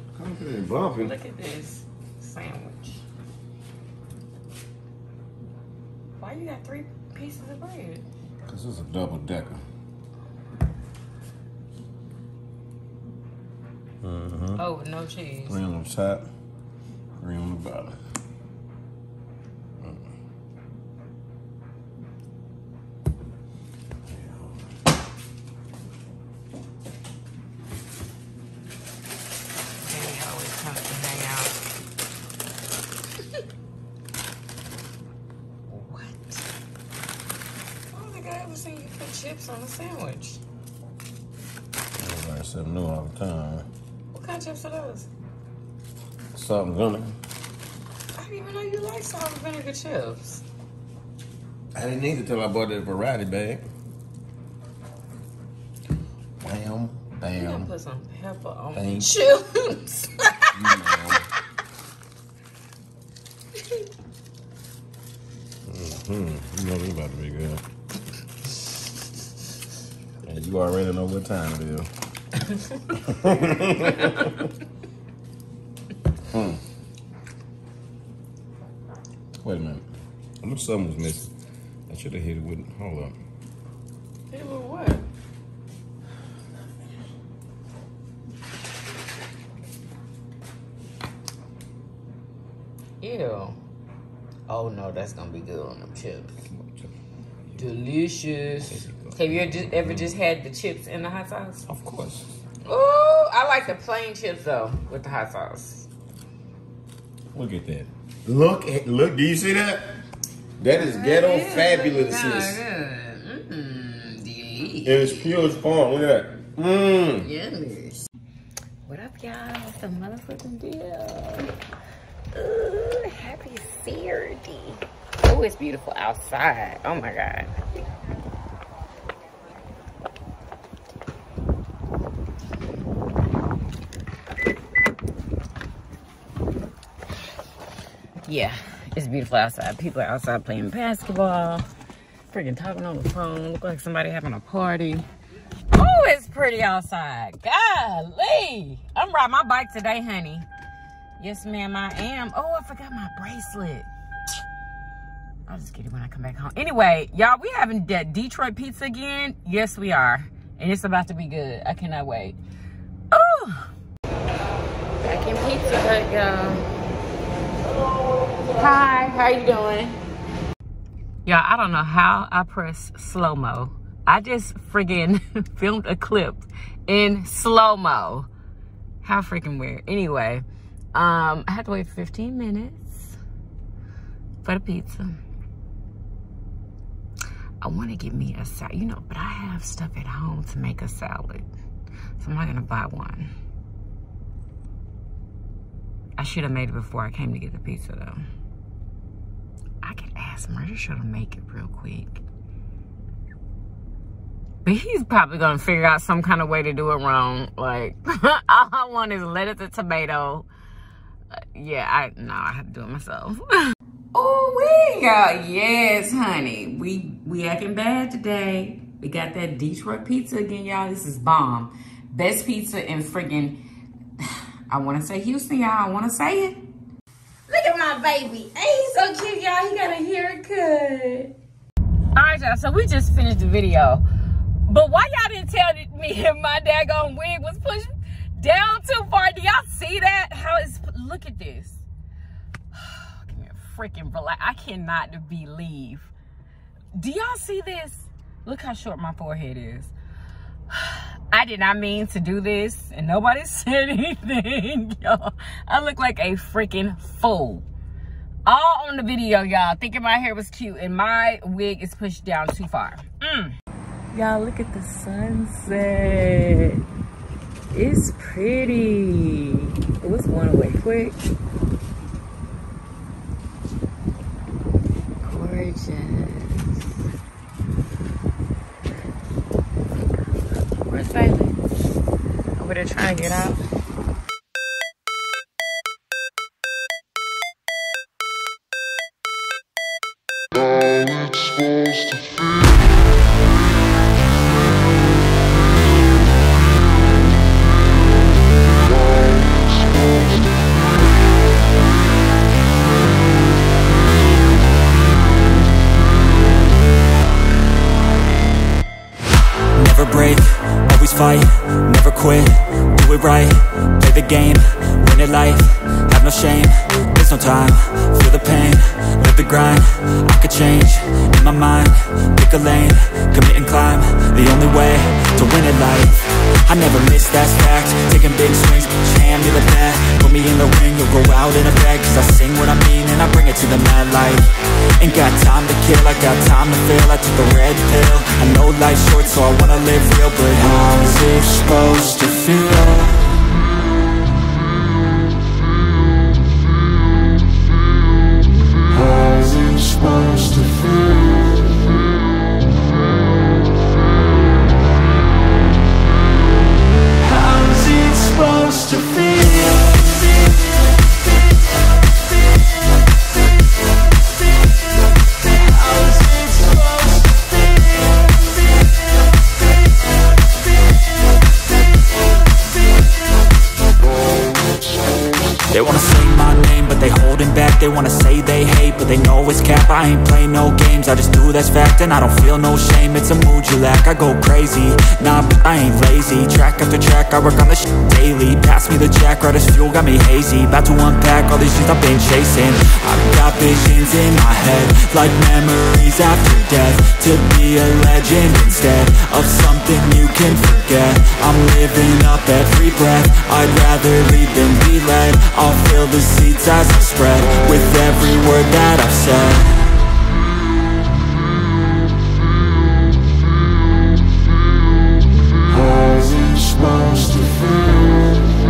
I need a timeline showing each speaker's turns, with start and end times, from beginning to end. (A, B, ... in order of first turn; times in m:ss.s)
0:00.1-0:01.1 A
0:01.0-0:03.0 B
0:06.2-0:08.0 B
0:08.4-0:09.6 A
0:14.0-0:14.6 A
0:14.5-0:15.6 B
0:15.5-0:16.3 A
0:17.2-0:18.0 A
0:19.8-0:20.1 A
0:24.1-0:24.6 A
0:29.8-0:31.6 B
0:35.7-0:36.4 B
0:37.9-0:40.4 B
0:42.0-0:43.6 A
0:44.1-0:45.1 B
0:46.3-0:47.2 A
0:48.1-0:50.4 B
0:51.7-0:53.6 A
0:56.4-0:57.7 A
0:57.3-1:00.6 B
0:58.7-0:59.1 A
1:00.5-1:01.2 A
1:05.7-1:07.6 A
1:10.2-1:11.9 A
1:12.9-1:14.3 A
1:16.3-1:16.6 A
1:19.4-1:19.8 A
1:20.4-1:21.3 A
1:21.9-1:23.2 A
1:24.3-1:25.1 B
1:33.0-1:33.6 B
1:34.5-1:36.3 B
1:36.5-1:36.9 A
1:37.6-1:41.6 B
1:38.6-1:40.1 A
1:41.6-1:42.3 A
1:42.6-1:45.9 B
1:47.3-1:49.9 A
1:50.6-1:52.6 A
1:50.7-1:55.4 B
1:54.8-1:57.3 A
1:57.2-1:58.1 B
1:58.8-2:01.5 B
2:02.3-2:07.5 B
2:18.2-2:21.7 B
2:22.3-2:25.1 B
2:25.7-2:30.5 B
2:31.2-2:33.9 B
2:35.5-2:42.4 B
2:43.1-2:43.7 B
2:45.0-2:46.7 B
2:48.5-2:50.0 B
2:51.2-2:58.3 B
2:59.0-3:03.2 B
3:04.4-3:05.2 B
3:07.6-3:11.5 B
3:12.2-3:13.3 B
3:16.2-3:18.2 B
3:19.8-3:22.2 B
3:24.6-3:30.5 B
3:31.5-3:43.6 B
3:44.2-3:46.6 B
3:47.5-3:51.3 B
3:52.1-3:54.0 B
3:54.6-4:01.8 B
4:02.7-4:06.1 B
4:06.9-4:09.9 B
4:10.7-4:17.6 B
4:18.4-4:23.5 B
4:24.1-4:26.8 B
4:27.7-4:31.2 B
4:35.2-4:36.8 B
4:40.8-4:41.6 B
4:42.6-4:43.6 B
5:09.7-5:43.2 C
5:58.0-5:59.2 C
6:15.7-6:49.9 C